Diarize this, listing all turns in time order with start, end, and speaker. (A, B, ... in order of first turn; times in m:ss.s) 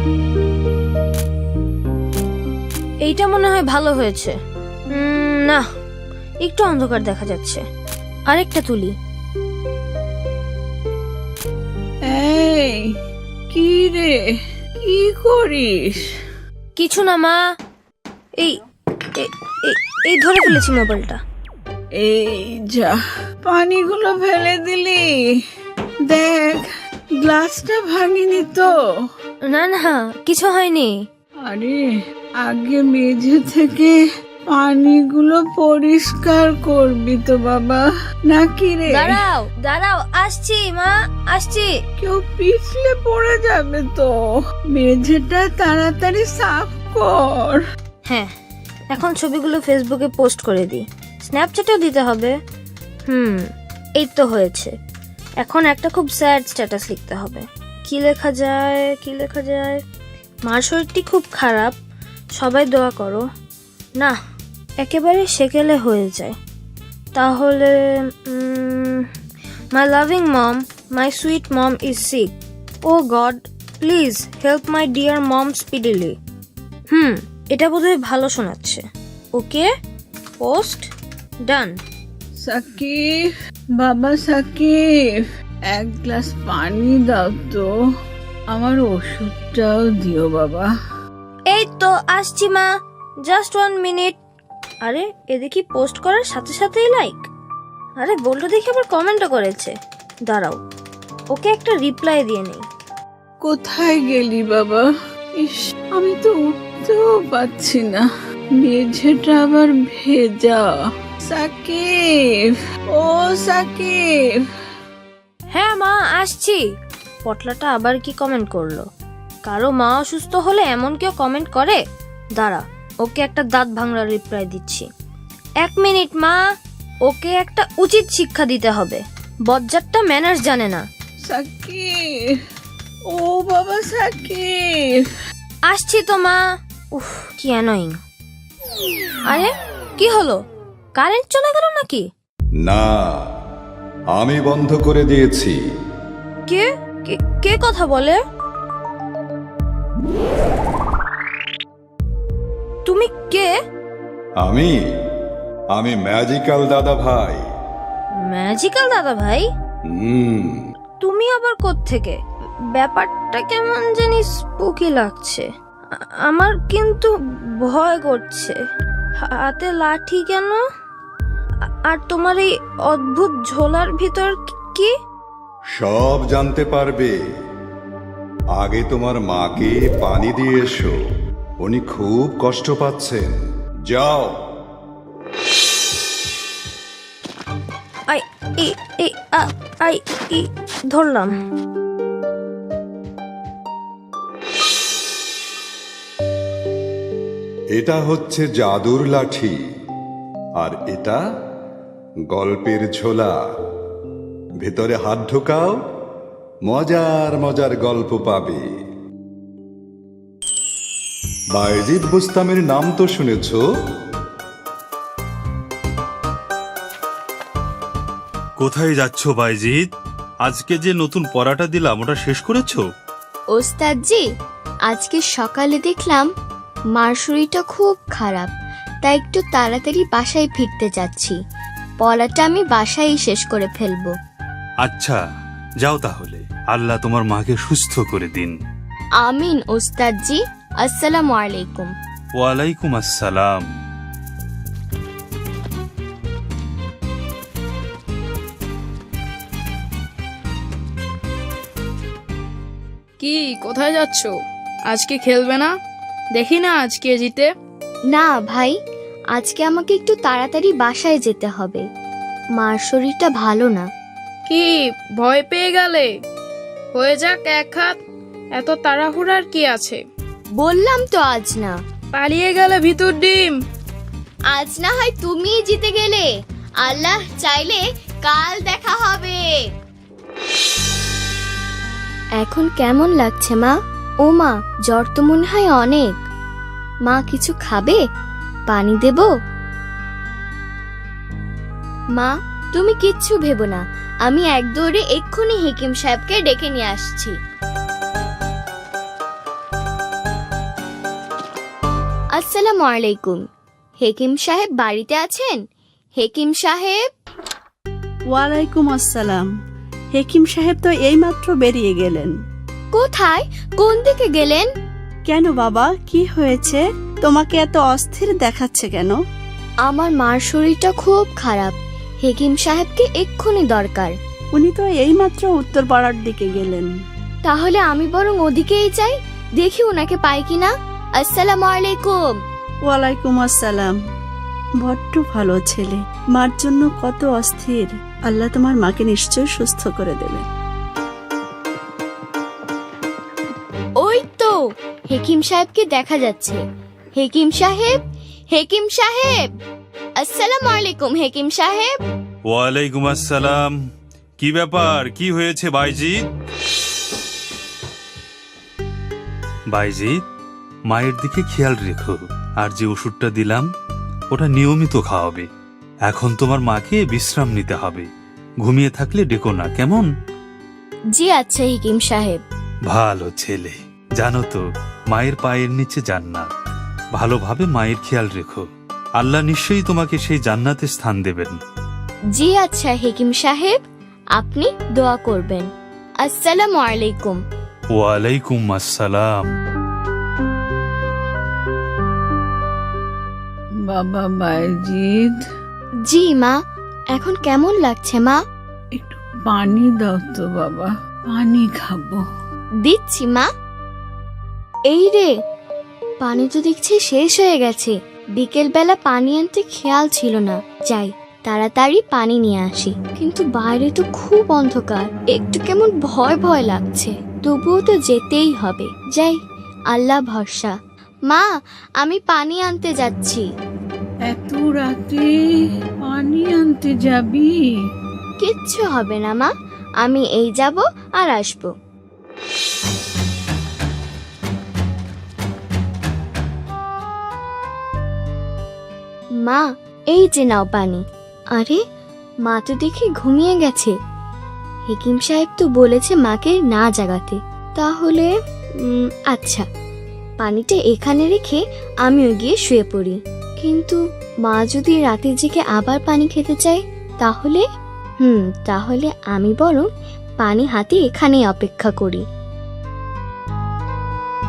0:03.0-0:04.3 A
0:04.9-0:05.6 A
0:06.4-0:07.6 A
0:08.3-0:08.9 A
0:12.0-0:12.9 B
0:13.5-0:14.3 B
0:14.8-0:16.1 B
0:16.8-0:17.4 A
0:19.2-0:21.2 A
0:22.0-0:25.3 B
0:26.1-0:28.8 B
0:29.5-0:30.9 A
0:31.4-0:34.0 B
0:34.5-0:39.2 B
0:38.9-0:41.7 A
0:42.0-0:44.2 B
0:44.7-0:47.6 B
0:48.9-0:52.3 A
0:53.1-0:53.4 A
0:54.0-0:54.7 A
0:55.4-0:59.8 A
1:00.5-1:01.7 A
1:02.4-1:03.2 A
1:04.8-1:06.3 A
1:07.1-1:09.1 A
1:09.7-1:12.3 A
1:12.8-1:16.2 A
1:16.9-1:18.8 A
1:19.4-1:19.7 A
1:20.4-1:20.9 A
1:21.4-1:21.7 A
1:22.4-1:27.7 B
1:28.5-1:30.7 B
1:31.5-1:32.7 A
1:33.2-1:34.2 A
1:34.8-1:37.2 A
1:38.0-1:39.7 A
1:40.3-1:40.6 A
1:41.3-1:42.6 A
1:43.4-1:48.1 B
1:48.6-1:54.4 B
1:55.5-1:56.6 A
1:57.2-1:58.8 A
1:59.5-2:01.8 A
2:02.4-2:04.9 A
2:05.6-2:06.4 A
2:07.0-2:10.8 A
2:11.2-2:12.4 B
2:13.1-2:15.0 B
2:15.7-2:16.4 A
2:16.9-2:18.0 A
2:19.3-2:20.4 A
2:21.0-2:22.0 A
2:22.6-2:23.2 C
2:24.1-2:25.6 C
2:26.5-2:28.2 A
2:32.8-2:33.5 A
2:34.4-2:34.8 C
2:35.7-2:37.4 C
2:38.2-2:39.4 A
2:39.9-2:40.7 C
2:41.0-2:42.2 A
2:42.8-2:48.6 A
2:49.2-2:50.6 A
2:51.9-2:54.9 A
2:55.8-2:57.1 C
2:58.6-3:00.9 C
3:01.6-3:04.4 C
3:08.1-3:11.3 A
3:17.8-3:19.6 C
3:20.6-3:21.2 C
3:22.3-3:23.3 C
3:24.6-3:25.8 C
3:26.6-3:28.6 C
3:31.5-3:33.6 C
3:38.6-3:39.8 D
3:40.4-3:42.8 D
3:43.6-3:44.2 E
3:44.9-3:46.2 E
3:47.0-3:48.5 E
3:49.0-3:51.4 E
3:52.0-3:54.1 E
3:54.8-3:55.2 D
3:55.8-3:58.6 D
3:59.2-4:01.9 E
4:02.4-4:03.6 D
4:13.2-4:15.8 F
4:16.3-4:17.5 F
4:18.1-4:18.7 E
4:19.3-4:21.8 E
4:22.6-4:23.8 E
4:24.5-4:26.1 F
4:26.9-4:28.0 F
4:28.5-4:30.0 F
4:30.6-4:31.7 E
4:32.1-4:33.6 F
4:34.5-4:36.2 E
4:36.8-4:39.6 E
4:42.4-4:46.1 E
4:47.1-4:48.0 E
4:48.7-4:49.3 E
4:52.2-4:57.3 E
5:02.4-5:03.4 E
5:04.0-5:05.6 E
5:06.2-5:07.0 E
5:08.3-5:09.5 G
5:10.1-5:12.3 G
5:12.9-5:14.7 E
5:15.3-5:19.2 G
5:19.9-5:24.1 E
5:24.6-5:26.9 G
5:27.4-5:32.4 E
5:32.9-5:33.9 G
5:34.8-5:40.4 G
5:44.0-5:44.5 E
5:45.1-5:46.6 E
5:47.2-5:47.9 E
5:48.5-5:49.4 E
5:50.2-5:51.9 E
5:52.5-5:53.7 D
5:54.4-5:56.2 D
5:59.7-6:00.2 D
6:00.9-6:03.7 D
6:04.3-6:05.4 D
6:06.1-6:08.1 D
6:08.6-6:10.1 D
6:11.2-6:12.4 E
6:12.9-6:16.5 D
6:17.2-6:18.6 D
6:19.2-6:21.6 D
6:22.4-6:23.8 E
6:24.4-6:25.7 E
6:26.2-6:27.4 E
6:27.9-6:29.5 D
6:33.8-6:35.4 B
6:36.1-6:36.5 E
6:37.1-6:38.4 E
6:38.9-6:42.2 B
6:42.8-6:43.5 E
6:44.9-6:45.3 E
6:46.2-6:59.4 E
6:59.9-7:00.7 E
7:02.0-7:03.4 E
7:04.3-7:05.3 B
7:06.0-7:07.7 B
7:08.4-7:11.7 E
7:19.4-7:21.0 E
7:22.5-7:23.9 E
7:24.9-7:28.3 E
7:28.9-7:29.6 E
7:30.4-7:37.6 E
7:38.2-7:39.9 E
7:40.4-7:42.2 E